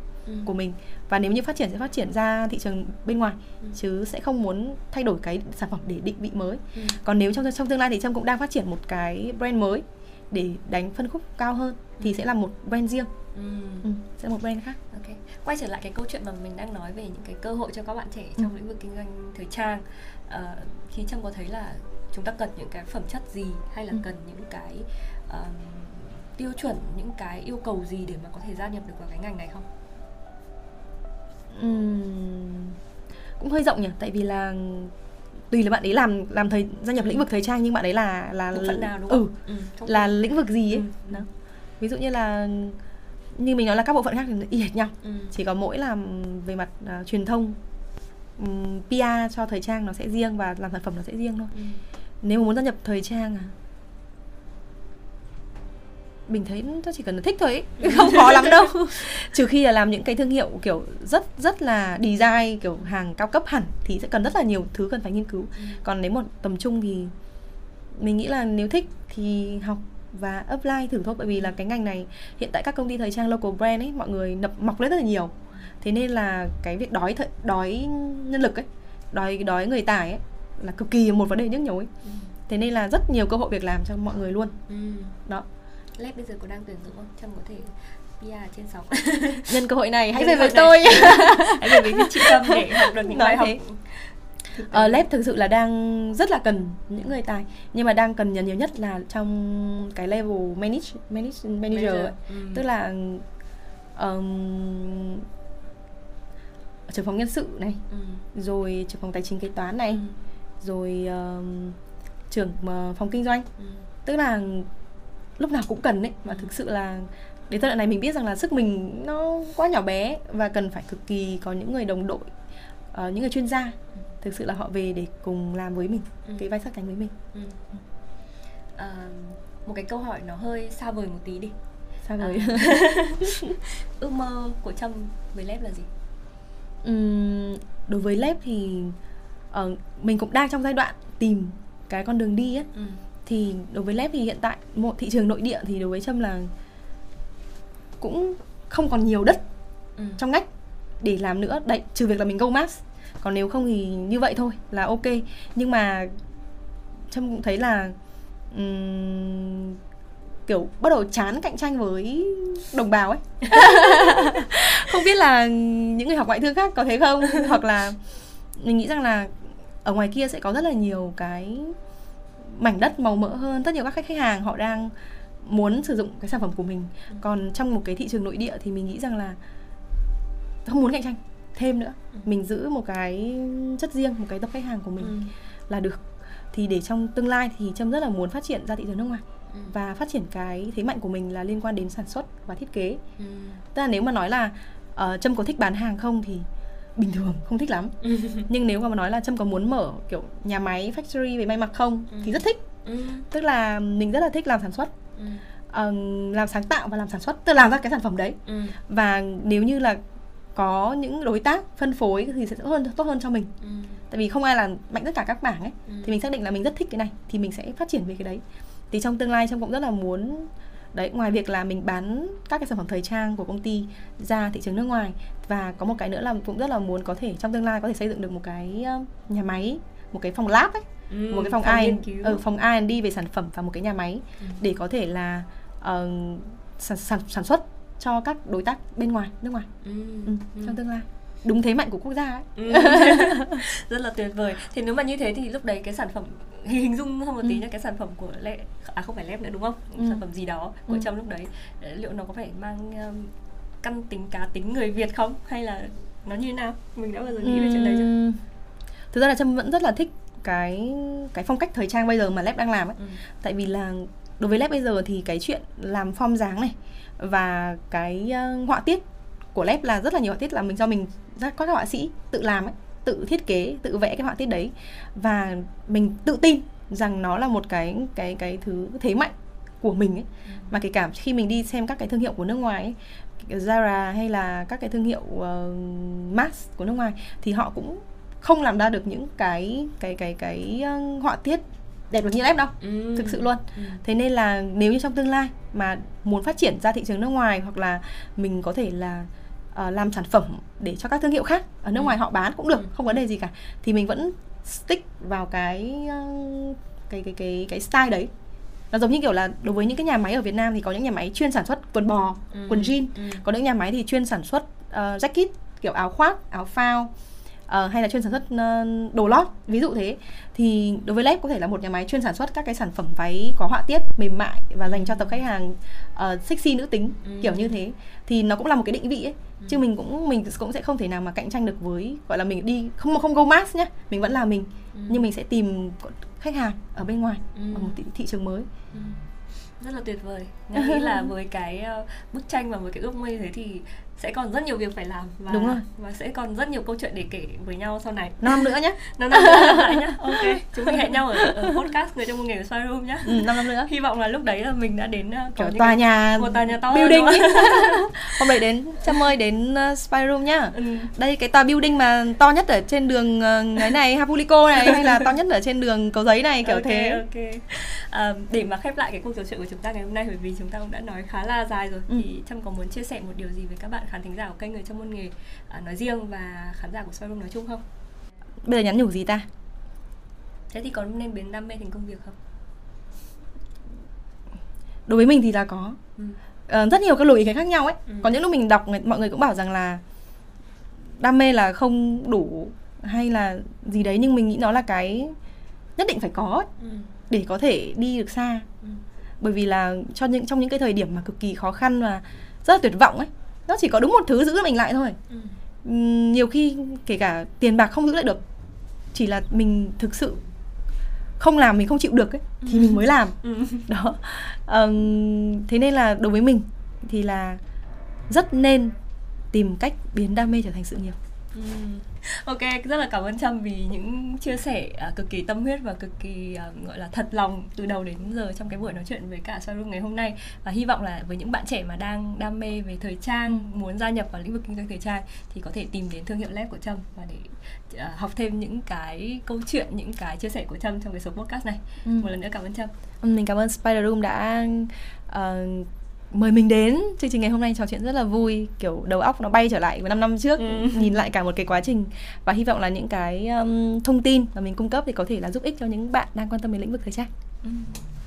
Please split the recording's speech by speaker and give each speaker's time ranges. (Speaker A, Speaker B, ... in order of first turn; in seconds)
Speaker A: 0.2-0.5, 6.7-7.0, 13.3-13.9, 14.9-29.7, 38.5-41.2, 45.0-45.3, 51.5-51.8, 57.8-58.6, 65.6-65.8, 82.0-82.3, 84.7-85.2, 86.0-89.6, 90.1-95.0, 101.7-102.6, 107.9-108.2, 109.9-110.1, 113.6-113.8, 127.3-127.6, 128.7-131.6, 132.2-135.9, 142.7-143.0, 163.5-164.5, 167.2-167.5, 185.0-185.3, 193.2-193.6, 198.0-198.5, 202.1-203.3, 205.2-205.5, 208.4-208.8, 213.6-214.0, 215.9-216.2, 231.1-232.4, 239.8-240.8, 242.6-258.1, 280.5-280.7, 292.8-294.0, 302.8-303.2, 312.5-313.4, 324.9-325.4, 327.2-327.8, 334.9-335.3, 337.5-337.9, 338.9-339.2, 339.8-358.4, 360.7-361.1, 364.8-365.3, 366.6-377.8, 380.7-382.4, 396.8-397.1, 405.3-405.6, 412.6-413.9, 421.5-442.9, 450.6-451.1, 457.6-458.0
Speaker B: 0.4-13.1, 13.8-14.8, 31.5-32.8, 33.4-34.9, 35.5-39.4, 39.9-41.3, 41.8-42.8, 43.4-47.6, 48.4-51.5, 52.2-53.5, 56.3-67.1, 68.0-81.9, 82.5-84.6, 89.5-93.6, 94.7-103.2, 104.0-105.2, 106.9-107.8, 108.3-110.0, 110.6-111.8, 112.3-113.5, 114.0-114.7, 115.4-122.2, 122.9-127.1, 132.0-133.6, 136.8-138.9, 139.5-142.7, 143.2-146.5, 148.0-149.4, 150.2-150.4, 151.0-156.1, 157.1-157.9, 158.5-159.8, 160.5-168.0, 168.6-169.3, 169.8-171.7, 172.5-174.9, 175.4-179.4, 180.6-193.0, 193.7-202.6, 203.3-204.9, 205.7-210.0, 210.6-213.5, 214.1-239.7, 240.3-243.6, 250.0-250.2, 257.4-258.4, 259.1-269.0, 269.5-308.3, 308.9-317.1, 317.7-338.7, 340.8-341.3, 345.5-345.8, 348.4-351.8, 353.2-353.9, 355.6-367.2, 378.6-379.5, 385.1-386.0, 386.7-390.0, 391.2-395.4, 396.0-396.7, 397.3-398.7, 399.4-405.2, 405.8-408.4, 409.1-410.4, 411.4-417.6, 418.3-418.9, 419.5-421.1, 442.0-442.3, 443.2-457.3